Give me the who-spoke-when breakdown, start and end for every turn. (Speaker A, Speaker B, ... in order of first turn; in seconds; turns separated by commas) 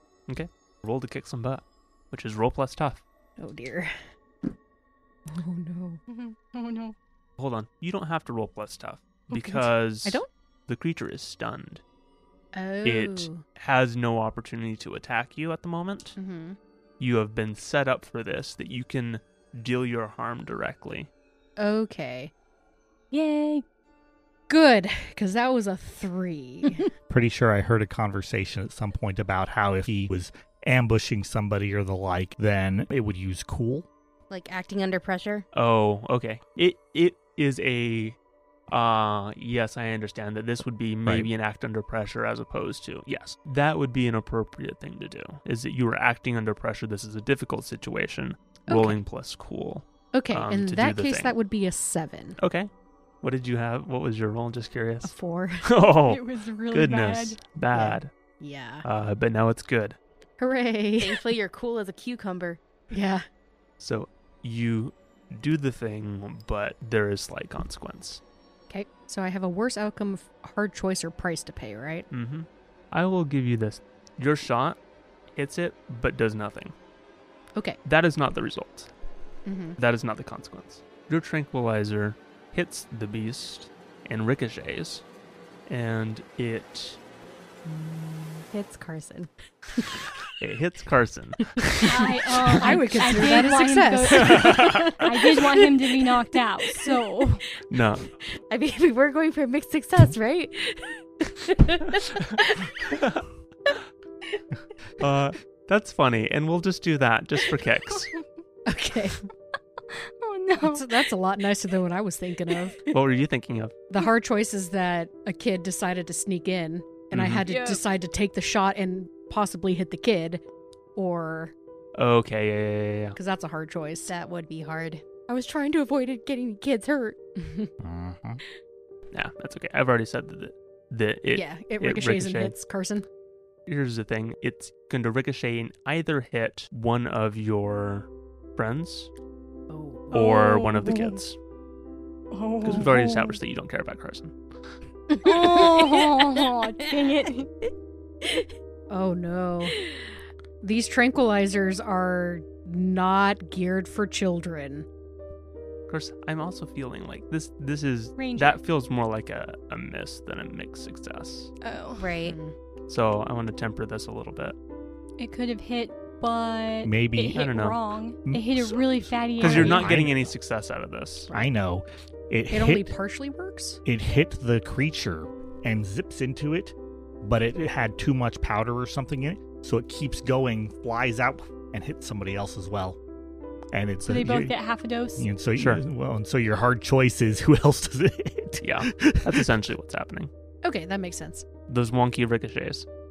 Speaker A: 0.3-3.0, Speaker B: 3.4-4.0, Speaker B: 5.3-6.0, Speaker C: 6.1-7.0, Speaker A: 7.4-11.8, Speaker B: 9.3-10.3, Speaker B: 12.5-13.4, Speaker A: 12.8-16.2, Speaker B: 16.2-16.6, Speaker A: 17.0-21.1, Speaker B: 21.6-22.3, Speaker C: 23.1-23.6, Speaker B: 24.5-26.9, Speaker D: 27.1-33.9, Speaker E: 34.3-35.5, Speaker A: 35.5-38.2, Speaker A: 38.7-51.4, Speaker B: 48.7-49.0, Speaker B: 50.1-52.4, Speaker A: 52.4-52.7, Speaker A: 53.2-58.1, Speaker B: 55.0-55.7, Speaker C: 56.1-57.4, Speaker B: 57.7-58.9, Speaker A: 58.8-60.0, Speaker B: 60.4-61.2, Speaker E: 61.0-62.6, Speaker B: 62.9-63.2, Speaker A: 63.8-68.2, Speaker B: 68.7-72.1, Speaker A: 72.1-74.8, Speaker A: 75.4-76.7, Speaker A: 77.8-78.9, Speaker B: 79.5-79.8, Speaker A: 79.8-85.0, Speaker A: 85.7-87.0, Speaker E: 87.7-89.9, Speaker A: 90.4-92.0, Speaker C: 91.8-97.5, Speaker B: 91.9-95.0, Speaker A: 94.2-95.0, Speaker A: 97.7-98.1, Speaker E: 98.5-103.0, Speaker A: 102.9-103.2, Speaker A: 105.0-108.1, Speaker B: 108.7-109.2, Speaker C: 109.9-111.0, Speaker B: 110.6-112.9, Speaker A: 112.9-113.8, Speaker B: 113.9-120.4, Speaker A: 117.1-117.4, Speaker C: 117.5-117.8, Speaker B: 121.0-121.5, Speaker A: 122.0-123.2, Speaker B: 123.2-124.1, Speaker E: 124.1-127.2, Speaker B: 127.4-127.7, Speaker D: 127.8-128.4, Speaker A: 129.1-132.6, Speaker B: 131.3-133.1, Speaker A: 133.7-139.1, Speaker B: 139.7-140.1, Speaker C: 140.1-141.2, Speaker A: 140.1-141.4, Speaker C: 142.3-143.4, Speaker A: 142.6-144.3, Speaker E: 145.1-146.9, Speaker C: 145.2-147.5, Speaker B: 148.9-149.8, Speaker B: 150.6-154.9, Speaker A: 155.9-161.5, Speaker C: 158.2-158.6, Speaker C: 161.6-162.1, Speaker E: 162.0-162.4, Speaker B: 162.2-162.5, Speaker A: 162.9-164.6, Speaker C: 165.2-169.9, Speaker D: 166.8-167.5, Speaker A: 167.3-167.8, Speaker D: 168.3-170.3, Speaker A: 169.4-171.3, Speaker D: 171.3-172.9, Speaker B: 172.5-173.8, Speaker D: 173.8-183.0, Speaker D: 183.7-184.6, Speaker C: 184.1-185.3, Speaker D: 185.2-189.5, Speaker A: 185.6-185.8, Speaker A: 188.6-190.3, Speaker B: 190.6-191.4, Speaker A: 191.7-192.9